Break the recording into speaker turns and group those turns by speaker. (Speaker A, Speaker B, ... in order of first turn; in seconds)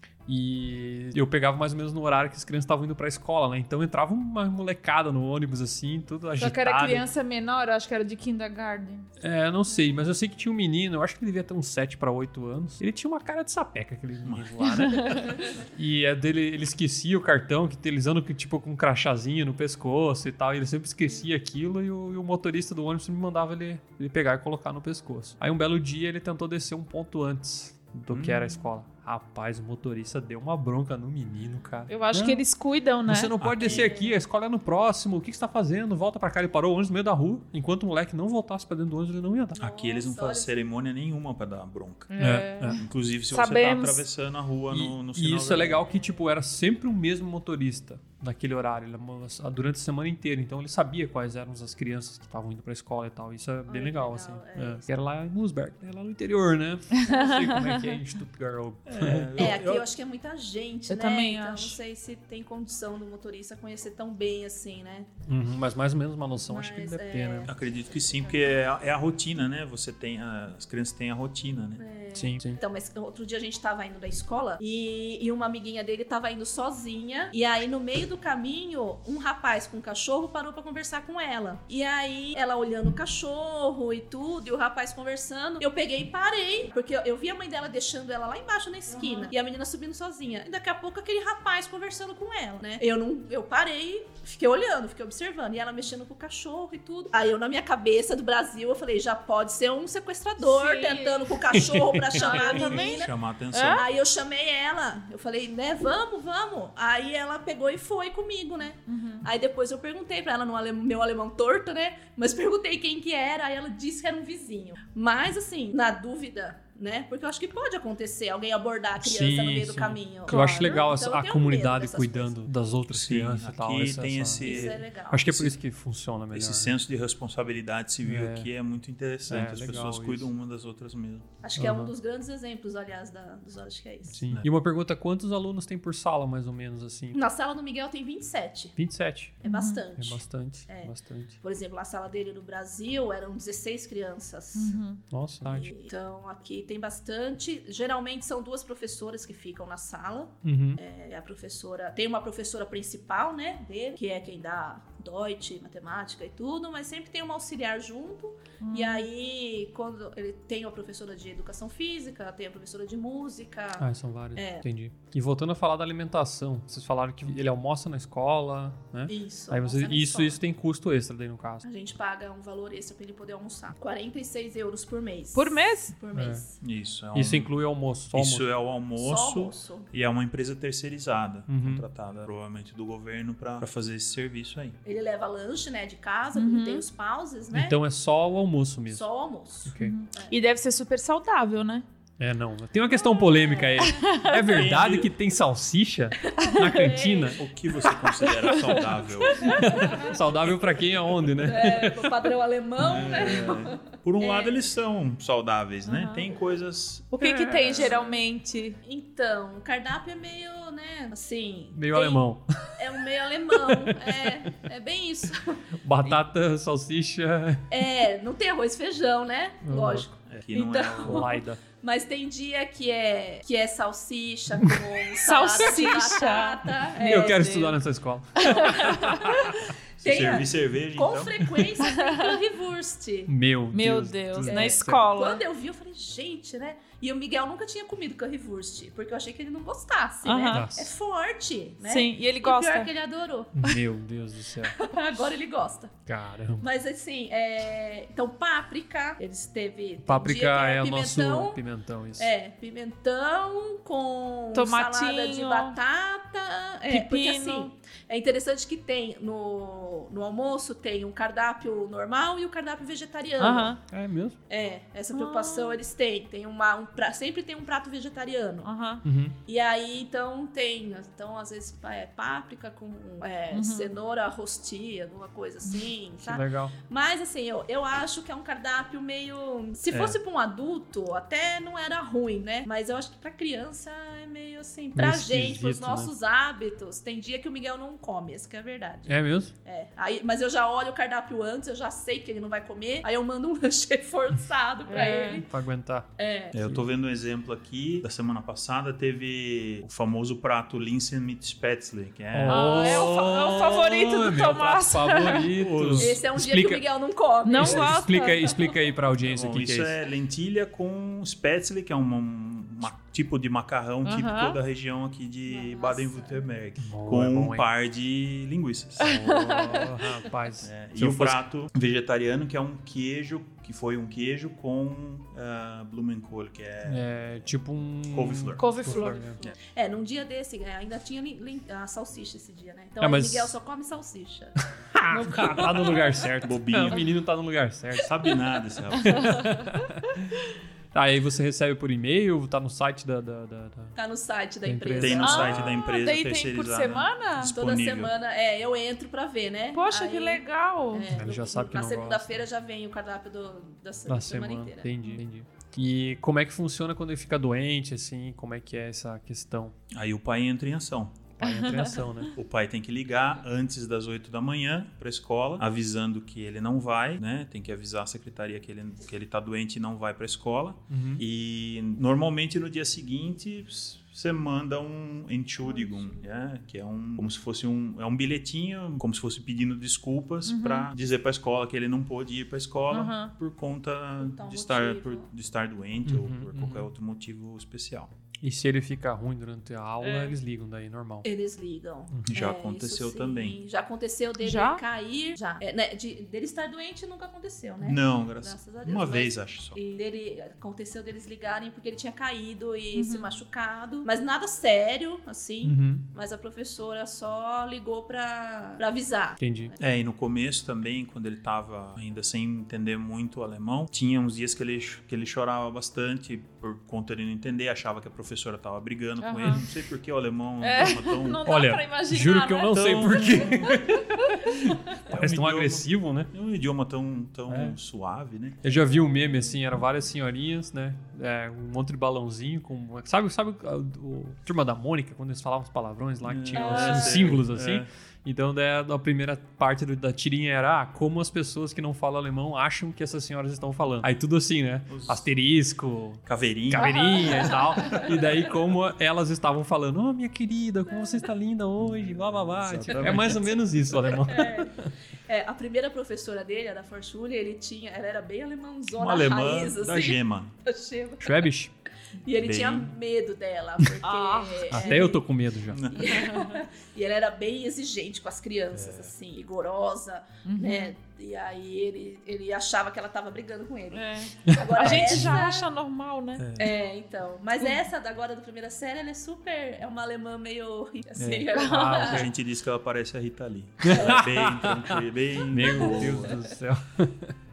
Speaker A: 0.3-7.1, 9.2-32.4, 33.1-39.6, 42.2-42.8, 44.7-59.5, 65.3-67.5, 72.1-72.6, 101.5-102.4, 119.0-126.8, 128.0-128.5, 129.3-130.3, 131.6-131.9, 134.1-137.2, 138.8-139.4, 140.0-141.4, 145.1-145.7, 150.4-150.8, 163.8-171.7, 176.1-176.4, 177.1-178.5, 181.5-181.8, 187.5-189.1, 189.7-190.0, 192.2-197.4, 199.5-202.2, 207.2-207.9, 211.8-212.8, 213.6-214.2, 215.8-217.7, 219.6-220.1, 221.0-221.6, 227.0-229.6, 233.3-235.1, 240.5-240.9, 243.6-244.8, 246.1-246.7, 250.0-252.3, 263.9-264.4, 269.0-269.4, 276.2-276.7, 284.9-286.1, 289.1-289.5, 295.0-296.1, 302.3-306.8, 307.6-309.9, 316.8-317.7, 319.0-321.4, 326.9-329.4, 333.0-333.6, 334.9-338.1, 339.0-340.3, 340.9-344.0, 344.6-345.8, 351.1-352.4, 354.1-359.7, 361.4-362.4, 370.9-371.2, 386.1-386.9, 388.4-391.3, 405.6-406.1, 409.4-409.7, 421.5-426.3, 427.5-427.8, 428.6-454.9, 461.2-461.7, 464.7-465.8, 474.5-475.4, 481.5-482.3, 483.8-485.0, 485.5-487.4
Speaker B: 6.4-9.1, 14.7-15.3, 31.9-33.3, 42.1-44.0, 57.0-58.0, 60.9-61.8, 89.0-89.3, 100.4-101.5, 102.1-103.9, 108.9-109.3, 120.3-120.8, 139.4-139.8, 144.6-145.0, 158.6-159.1, 175.3-175.9, 186.3-186.8, 189.8-191.8, 193.8-194.3, 198.2-199.7, 205.9-206.3, 207.1-208.8, 225.2-227.8, 228.4-229.5, 231.8-232.4, 233.7-235.4, 240.2-240.7, 241.8-242.9, 254.5-255.8, 256.9-257.7, 263.4-263.8, 265.1-265.8, 268.6-269.0, 273.5-273.9, 294.9-295.4, 302.5-305.5, 307.4-308.7, 314.1-314.6, 319.1-319.9, 328.6-329.3, 345.2-347.5, 349.7-351.1, 361.4-362.1, 380.5-380.9, 382.9-383.3, 390.0-390.4, 394.4-394.8, 402.9-403.3, 419.2-419.6, 420.6-423.7, 436.6-437.3, 464.0-465.1, 466.0-466.6, 470.4-470.9, 473.9-476.5, 481.5-481.9
Speaker C: 14.2-14.5, 28.1-28.5, 33.4-34.0, 39.6-42.1, 42.7-45.9, 58.9-59.9, 67.5-71.8, 102.5-103.9, 122.9-125.5, 126.3-131.3, 176.6-177.6, 178.1-184.8, 194.4-195.1, 197.4-199.9, 202.8-207.2, 220.3-221.3, 230.0-231.5, 279.9-280.2, 296.5-302.9, 305.4-306.2, 309.2-319.5, 320.6-327.5, 328.1-328.7, 336.4-337.1, 338.0-339.6, 345.0-348.1, 359.9-361.2, 362.3-388.1, 392.3-393.6, 397.8-399.8, 409.8-421.4, 422.7-423.8, 425.1-428.6, 436.2-437.9, 444.9-445.3, 446.3-448.0, 451.8-453.7, 458.9-460.6, 462.4-462.9, 465.7-466.2, 468.7-469.1, 476.4-476.7, 481.2-486.4
Speaker D: 33.6-34.2, 39.6-40.5, 53.7-54.9, 57.1-57.5, 59.4-65.1, 66.5-68.3, 71.8-103.1, 103.7-122.4, 124.4-125.5, 131.4-134.2, 137.1-138.8, 139.4-144.8, 145.5-164.7, 169.1-170.4, 171.6-176.6, 179.0-179.9, 184.8-187.8, 188.9-190.4, 193.2-194.1, 196.2-197.4, 199.8-200.2, 201.4-204.6, 207.7-208.2, 208.8-212.2, 212.8-216.2, 217.7-227.5, 228.5-229.2, 230.0-233.3, 234.4-243.6, 244.8-245.9, 246.6-251.6, 252.2-263.8, 264.5-268.7, 269.5-295.5, 296.2-296.6, 306.0-308.5, 315.5-316.5, 328.8-334.6, 335.1-336.2, 344.0-345.6, 347.5-354.9, 375.6-376.2, 384.2-385.3, 391.2-409.8, 450.9-451.2, 453.0-453.3, 453.9-454.8, 455.3-461.4, 462.2-465.2, 465.9-475.7, 476.6-482.3, 483.9-484.2, 485.7-486.4